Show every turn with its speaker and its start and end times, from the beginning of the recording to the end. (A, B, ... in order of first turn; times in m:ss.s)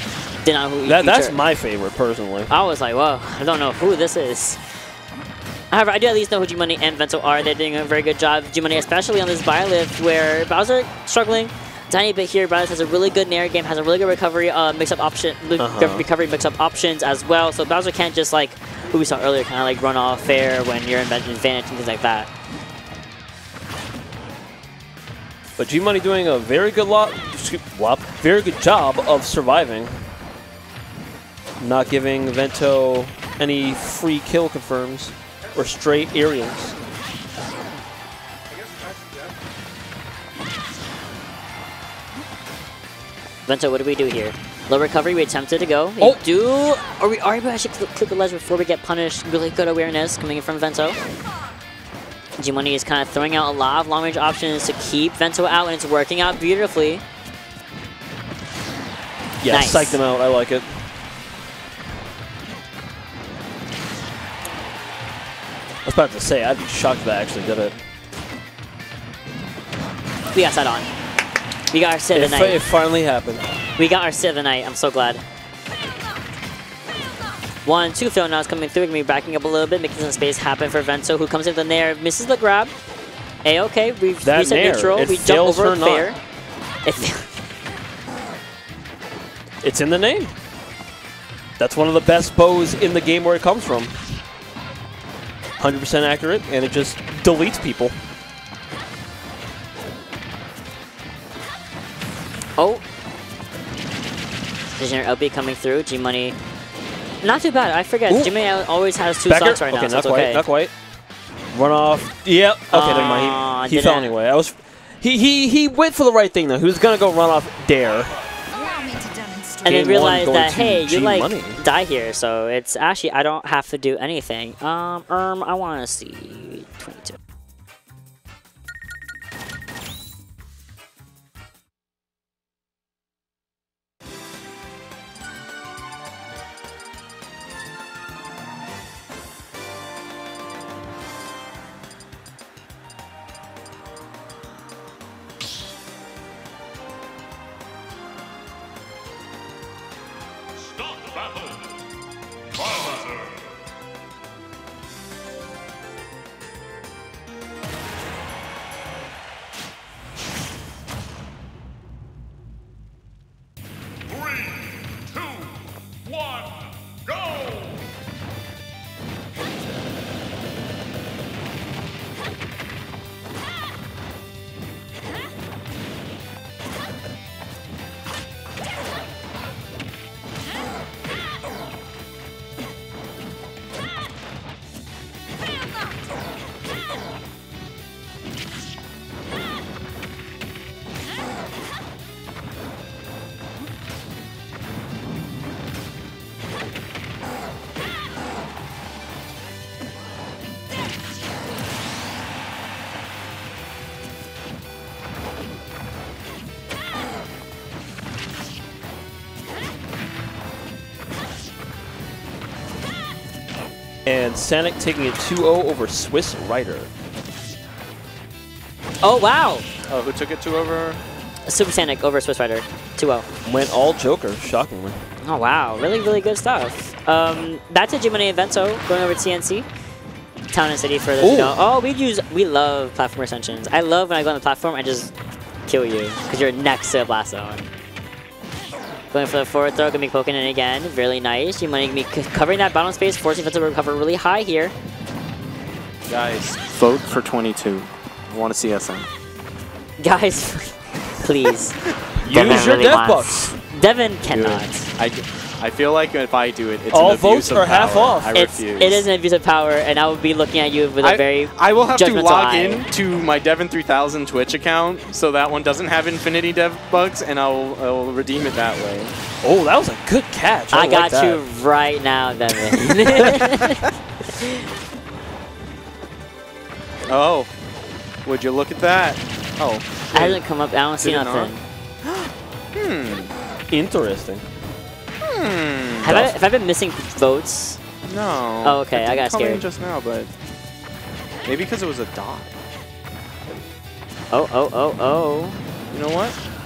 0:00.4-0:01.4 A
0:00.8-0:02.5 B
0:02.5-0:04.6 A
0:05.7-0:22.3 A
0:15.6-0:16.1 B
0:25.6-0:30.1 B
0:31.6-0:36.8 B
0:43.5-0:51.0 A
0:52.4-0:57.0 A
0:59.4-1:00.9 B
0:59.5-1:00.0 A
1:05.8-1:07.8 B
1:10.3-1:10.9 A
1:11.7-1:12.6 A
1:12.1-1:13.5 B
1:13.8-1:15.2 A
1:17.6-1:22.7 A
1:23.4-1:26.2 A
1:24.2-1:26.1 B
1:26.9-1:27.4 A
1:29.6-1:30.3 B
1:31.6-1:34.2 B
1:35.6-1:38.0 B
1:42.6-1:42.8 A
1:44.8-1:46.4 A
1:47.2-1:50.4 A
1:49.3-1:50.7 B
1:51.5-1:58.2 B
1:52.7-1:54.2 A
1:59.6-2:07.2 A
1:59.6-2:01.6 B
3:34.1-3:36.9 B
3:39.0-3:39.6 A
3:39.9-3:41.0 C
3:41.5-3:43.3 A
3:43.4-3:45.0 B
3:45.2-3:49.7 A
3:50.5-3:55.1 A
3:51.2-3:51.6 B
3:55.7-3:57.7 A
3:59.1-4:04.7 A
4:06.1-4:09.1 C
4:10.0-4:11.8 A
4:12.2-4:13.6 B
4:12.3-4:14.9 A
4:14.3-4:19.1 C
4:16.9-4:18.3 B
4:18.3-4:22.8 A
4:21.0-4:29.2 C
4:29.4-4:31.4 B
4:30.7-4:34.6 A
4:32.9-4:33.3 C
4:37.1-4:37.5 C
4:38.2-4:40.4 C
4:40.1-4:41.6 A
4:41.0-4:41.5 C
4:42.0-4:43.3 C
4:43.7-4:44.4 B
4:45.2-4:46.2 C
4:46.0-4:47.8 A
4:46.1-4:46.3 B
4:48.1-4:50.3 C
4:48.6-4:49.6 A
4:51.4-4:52.5 C
4:54.3-4:55.6 A
4:55.9-4:56.4 C